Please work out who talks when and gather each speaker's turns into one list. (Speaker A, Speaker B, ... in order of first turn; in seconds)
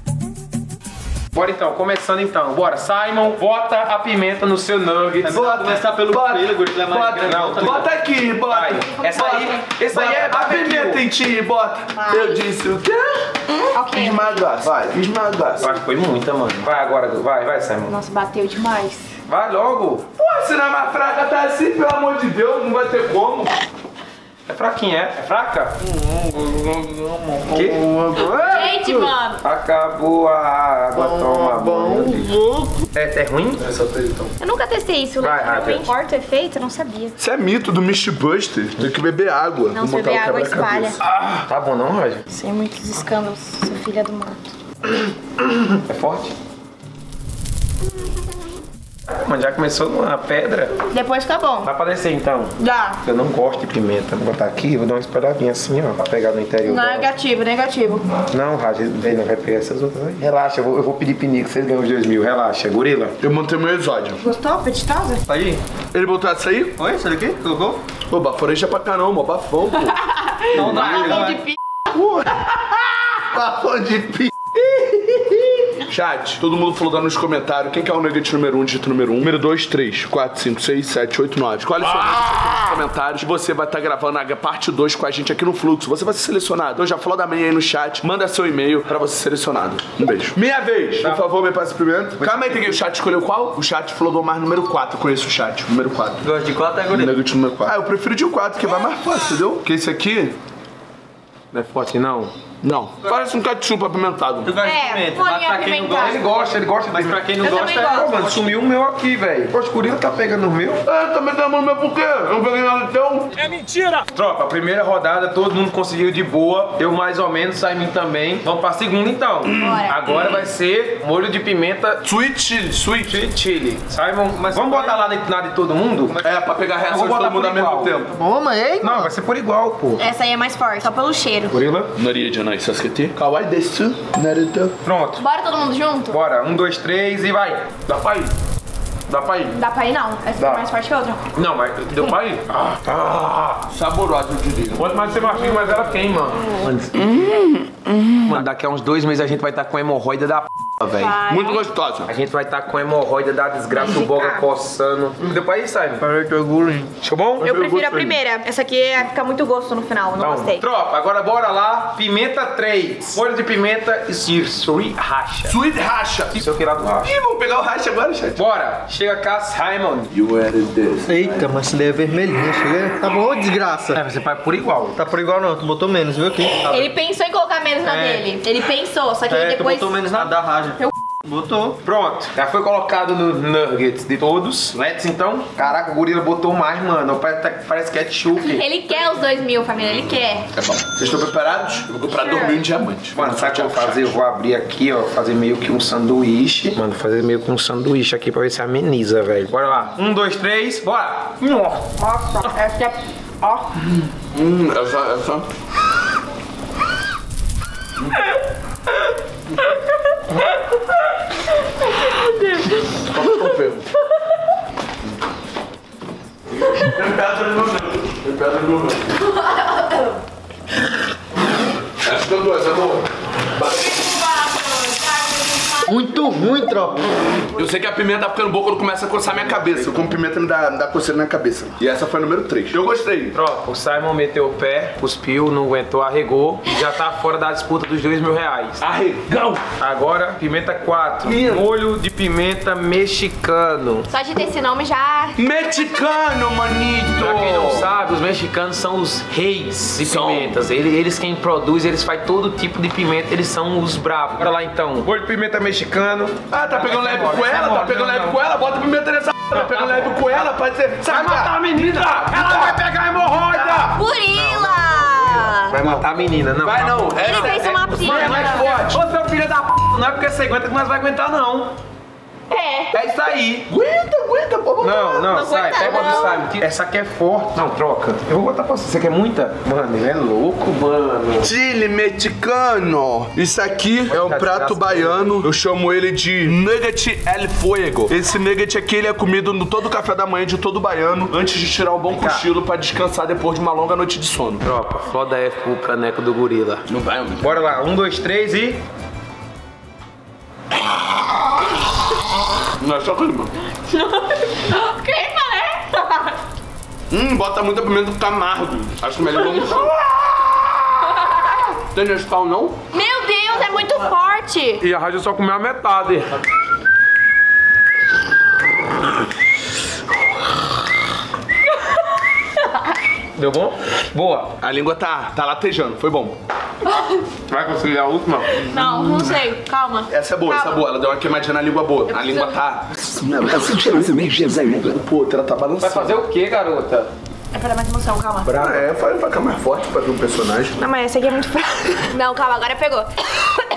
Speaker A: 1.3-5.5, 7.2-7.9, 8.4-11.0, 15.6-17.9, 19.3-20.1, 24.5-25.7, 27.5-27.8, 29.4-32.4, 32.9-34.3, 35.2-35.9, 41.3-42.2, 45.6-46.3, 49.1-50.8, 51.6-57.1, 58.3-63.2, 70.5-71.3, 92.2-92.8, 101.5-102.3, 105.9-110.8, 113.5-122.0, 123.0-126.2, 126.9-128.0, 128.8-130.0, 131.5-131.9, 134.8-135.2, 136.1-138.3, 139.1-139.6, 141.3-143.6, 144.8-147.2, 148.2-151.1, 152.1-156.1, 157.0-157.5, 160.2-165.6, 166.3-167.1, 168.4-170.1, 173.9-175.0, 181.8-188.7, 193.1-201.9, 229.2-230.1, 233.3-238.8, 239.8-244.1, 247.2-258.4, 259.6-260.4, 261.1-271.7, 272.9-273.7, 274.8-281.5, 284.1-285.4, 292.1-292.5, 294.6-296.9, 297.4-298.8, 314.8-316.4, 323.4-324.5, 327.5-328.6, 335.8-337.1, 338.4-338.9
Speaker B: 5.2-7.8, 25.9-28.8, 30.9-32.7, 65.3-65.6, 66.8-67.8, 70.5-71.4, 96.2-97.1, 104.5-106.2, 106.8-108.5, 124.4-125.0, 128.1-129.1, 156.0-156.9, 171.1-174.0, 174.9-176.9, 177.9-178.2, 179.3-181.8, 225.9-227.2
Speaker C: 5.3-13.3, 13.9-15.8, 20.2-23.5, 28.2-28.7, 37.2-41.2, 63.2-64.2, 65.9-66.8, 68.1-70.0, 70.6-71.0, 71.9-96.3, 96.9-100.4, 102.6-104.6, 110.8-113.3, 122.0-123.2, 126.2-128.1, 131.9-134.8, 143.7-144.9, 147.1-148.1, 151.2-152.1, 157.4-158.2, 165.5-166.4, 167.0-168.4, 170.1-171.5, 190.5-194.2, 204.3-205.5, 213.1-213.8, 216.7-219.2, 222.0-224.0, 227.4-233.4, 238.8-239.6, 241.2-241.7, 245.4-247.9, 250.0-250.6, 256.5-264.0, 266.6-269.0, 273.7-275.9, 281.4-294.6, 296.9-297.6, 302.8-303.5, 307.1-309.9, 311.8-312.8, 324.6-326.4, 330.1-336.2, 338.6-340.8
Speaker D: 12.0-12.4, 13.7-14.3, 17.9-19.1, 28.3-29.4, 34.4-37.1, 39.7-41.0, 42.3-44.5, 50.9-51.7, 52.6-53.0, 56.6-58.0, 64.2-65.2, 70.4-71.5, 104.6-106.2, 107.4-108.3, 119.5-120.1, 130.0-131.6, 135.2-136.2, 139.6-141.2, 150.9-151.7, 154.0-154.4, 157.4-160.7, 176.6-180.3, 188.4-190.5, 192.1-192.6, 202.0-203.7, 212.1-212.8, 219.3-220.0, 223.9-225.9, 244.1-245.4, 263.9-265.8, 267.2-268.7, 272.5-272.9, 275.3-276.5, 303.9-306.4, 312.9-314.8, 326.9-327.2, 328.5-330.9, 332.1-332.5, 337.5-338.5, 340.8-343.4